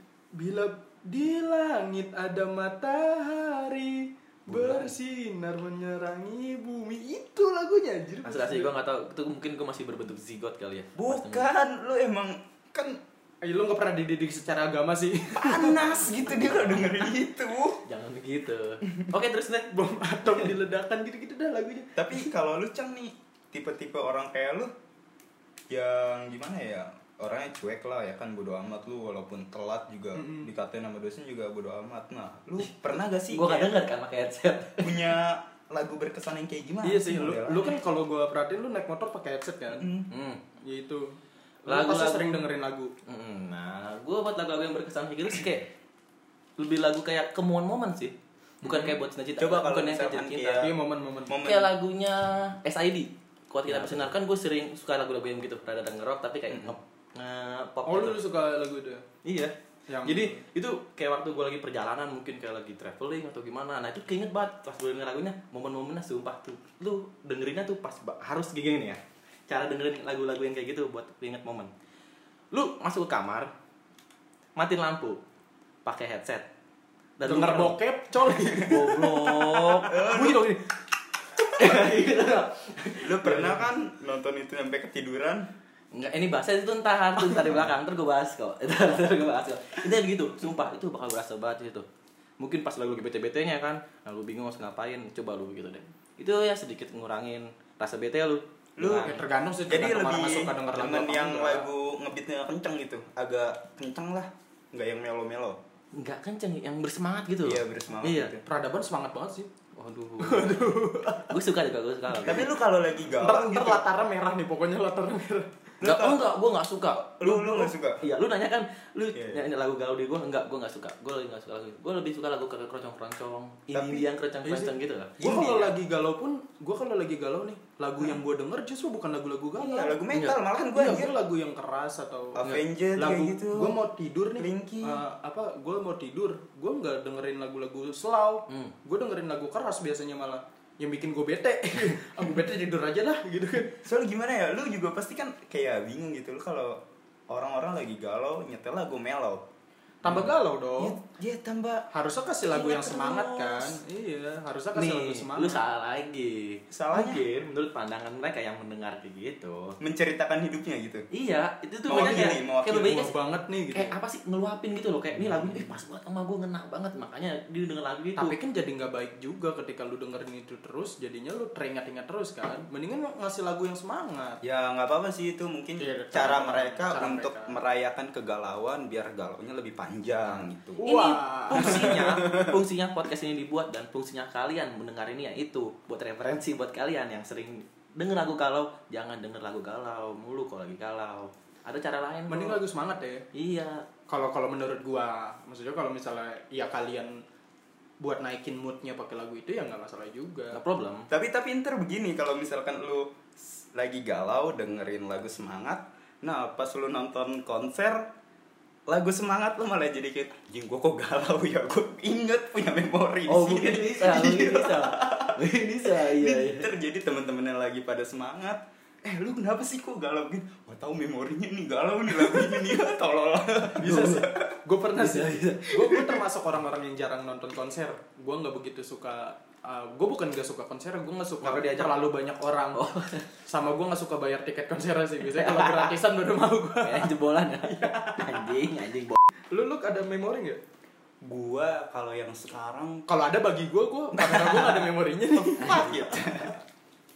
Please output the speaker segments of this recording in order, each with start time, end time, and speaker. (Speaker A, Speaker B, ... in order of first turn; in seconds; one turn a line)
Speaker A: 0.3-8.7
Speaker B: 4.5-4.9
Speaker C: 8.2-11.5
Speaker B: 10.9-13.0
Speaker A: 13.4-15.8
Speaker B: 15.3-17.8
Speaker C: 15.8-17.1
Speaker C: 17.8-20.5
Speaker A: 19.7-22.3
Speaker B: 21.9-24.7
Speaker B: 25.7-33.7
Speaker A: 30.1-30.5
Speaker C: 33.3-35.1
Speaker B: 34.8-37.7
Speaker A: 36.8-39.9
Speaker B: 39.7-40.1
Speaker C: 40.1-40.4
Speaker A: 40.6-42.9
Speaker C: 41.6-42.5
Speaker C: 43.1-45.7
Speaker C: 46.6-50.7
Speaker B: 48.6-50.7
Speaker A: 50.6-51.4
Speaker B: 51.3-51.7
Speaker C: 51.4-58.2
Speaker B: 53.7-54.0
Speaker B: 56.5-56.7
Speaker A: 57.9-59.0
Speaker C: 59.2-71.7
Speaker A: 59.9-60.4
Speaker C: 72.5-73.5
Speaker C: 74.5-75.2
Speaker C: 75.8-76.5
Speaker C: 77.2-77.8
Speaker A: 77.2-80.7
Speaker C: 78.5-79.9
Speaker B: 79.9-80.4
Speaker C: 81.5-83.5
Speaker B: 83.0-85.5
Speaker A: 83.3-83.6
Speaker C: 85.9-91.8
Speaker C: 92.4-98.4
Speaker B: 98.8-105.6
Speaker A: 98.8-101.7
Speaker C: 105.9-108.3
Speaker B: 107.4-108.4
Speaker A: 108.4-109.5
Speaker C: 109.8-112.5
Speaker A: 110.2-111.3
Speaker B: 112.2-113.8
Speaker A: 113.2-115.5
Speaker B: 115.8-116.3
Speaker C: 115.8-125.1
Speaker B: 117.1-118.0
Speaker A: 117.2-117.5
Speaker B: 119.1-119.4
Speaker B: 123.7-124.1
Speaker A: 124.4-130.0
Speaker B: 125.2-125.7
Speaker B: 129.6-131.1
Speaker C: 130.1-130.4
Speaker A: 130.6-132.4
Speaker B: 132.3-133.8
Speaker A: 132.9-143.8
Speaker B: 134.4-135.0
Speaker B: 143.8-149.4
Speaker A: 150.0-151.0
Speaker B: 150.0-151.8
Speaker A: 151.9-155.6
Speaker C: 152.4-153.8
Speaker C: 154.7-159.8
Speaker B: 156.7-157.2
Speaker B: 159.8-161.1
Speaker C: 161.1-163.1
Speaker B: 161.8-163.1
Speaker A: 161.9-163.9
Speaker C: 163.7-168.3
Speaker A: 168.2-174.4
Speaker B: 174.4-180.8
Speaker A: 175.8-177.6
Speaker C: 180.3-192.6
Speaker A: 180.8-182.0
Speaker B: 181.5-182.5
Speaker A: 192.3-193.2
Speaker C: 193.3-193.8
Speaker A: 194.1-197.2
Speaker A: 198.0-200.6
Speaker C: 200.5-201.1
Speaker B: 201.1-208.0
Speaker B: 208.9-224.5
Speaker C: 213.3-216.7
Speaker A: 223.8-232.8
Speaker C: 223.8-224.3
Speaker C: 224.9-226.0
Speaker C: 231.4-232.1
Speaker C: 232.7-233.2
Speaker A: 233.4-237.1
Speaker C: 235.3-235.9
Speaker C: 236.8-239.2
Speaker A: 237.6-238.5
Speaker A: 239.5-240.6
Speaker B: 241.2-243.1
Speaker A: 243.1-246.5
Speaker B: 244.1-246.6
Speaker C: 245.6-245.9